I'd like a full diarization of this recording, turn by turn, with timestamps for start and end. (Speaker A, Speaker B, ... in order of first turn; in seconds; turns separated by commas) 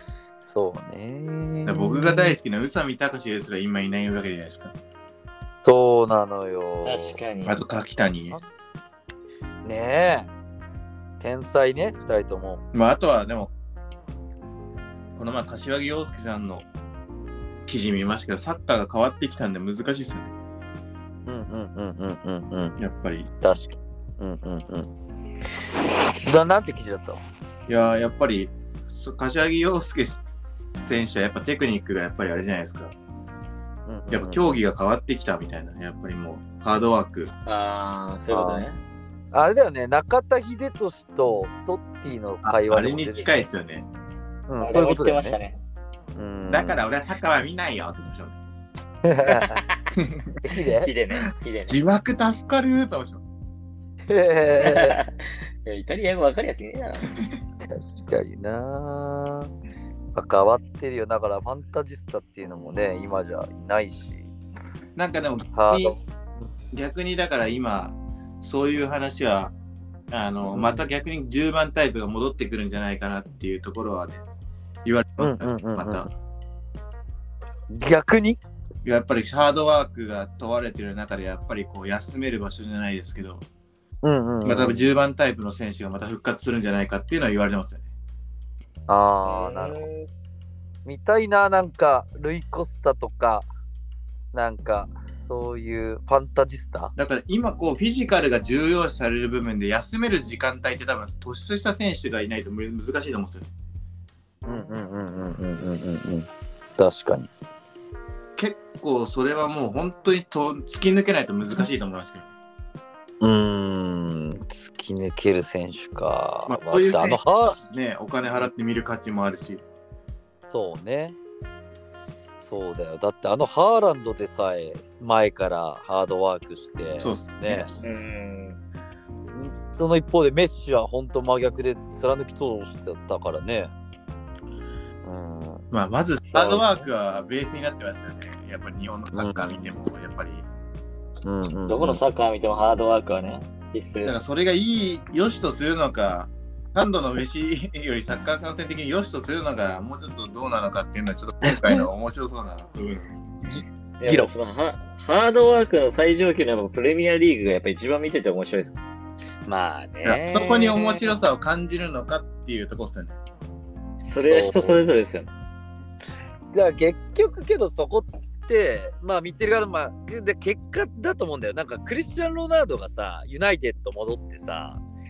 Speaker A: 0.4-2.4, Speaker B: 1.7-4.8, Speaker A: 5.6-7.2, Speaker C: 6.8-7.6, Speaker B: 7.5-8.4, Speaker A: 9.7-10.3, Speaker A: 11.2-12.6, Speaker B: 12.7-13.5, Speaker B: 15.2-16.7, Speaker B: 17.7-20.3, Speaker A: 21.3-22.8, Speaker B: 22.8-23.3, Speaker A: 23.4-24.9, Speaker A: 26.2-27.2, Speaker B: 27.7-32.9, Speaker A: 33.9-34.6, Speaker B: 34.1-37.3, Speaker C: 37.5-38.8, Speaker A: 38.3-38.6, Speaker A: 39.3-43.3, Speaker B: 42.4-43.9, Speaker A: 44.5-45.4, Speaker C: 44.6-45.6, Speaker A: 46.2-46.8, Speaker B: 46.5-48.4, Speaker A: 49.0-49.6, Speaker C: 49.3-49.8, Speaker B: 49.9-50.3, Speaker A: 50.4-50.9, Speaker C: 50.6-51.8, Speaker B: 51.7-53.2, Speaker A: 54.1-55.0, Speaker C: 54.6-55.1, Speaker C: 55.6-57.2, Speaker A: 57.6-59.5, Speaker A: 60.1-64.3, Speaker B: 65.0-66.0, Speaker A: 65.5-66.0, Speaker B: 66.7-69.5, Speaker B: 70.1-74.2, Speaker A: 70.5-70.9, Speaker B: 74.8-76.1, Speaker A: 75.2-76.1, Speaker A: 77.7-78.4, Speaker B: 78.8-83.4, Speaker A: 84.0-84.9, Speaker B: 84.5-87.8, Speaker A: 88.9-89.8, Speaker C: 89.2-90.1, Speaker A: 90.8-93.5, Speaker A: 94.3-96.9, Speaker B: 97.0-103.5, Speaker A: 104.5-107.3, Speaker B: 108.4-112.3, Speaker A: 113.2-117.6, Speaker B: 116.5-119.6, Speaker A: 120.5-121.2, Speaker A: 122.4-127.7, Speaker B: 127.0-127.7, Speaker C: 127.8-128.6, Speaker A: 129.3-133.7, Speaker A: 135.0-135.7, Speaker B: 135.7-140.5, Speaker C: 136.3-136.8, Speaker A: 139.1-139.7, Speaker A: 141.2-142.0, Speaker C: 141.7-144.2, Speaker B: 144.1-153.2, Speaker A: 151.5-151.8, Speaker A: 153.5-154.3, Speaker C: 154.0-158.8, Speaker A: 159.5-161.1, Speaker B: 160.0-163.2, Speaker C: 164.1-165.3, Speaker A: 164.2-164.8, Speaker A: 166.5-174.8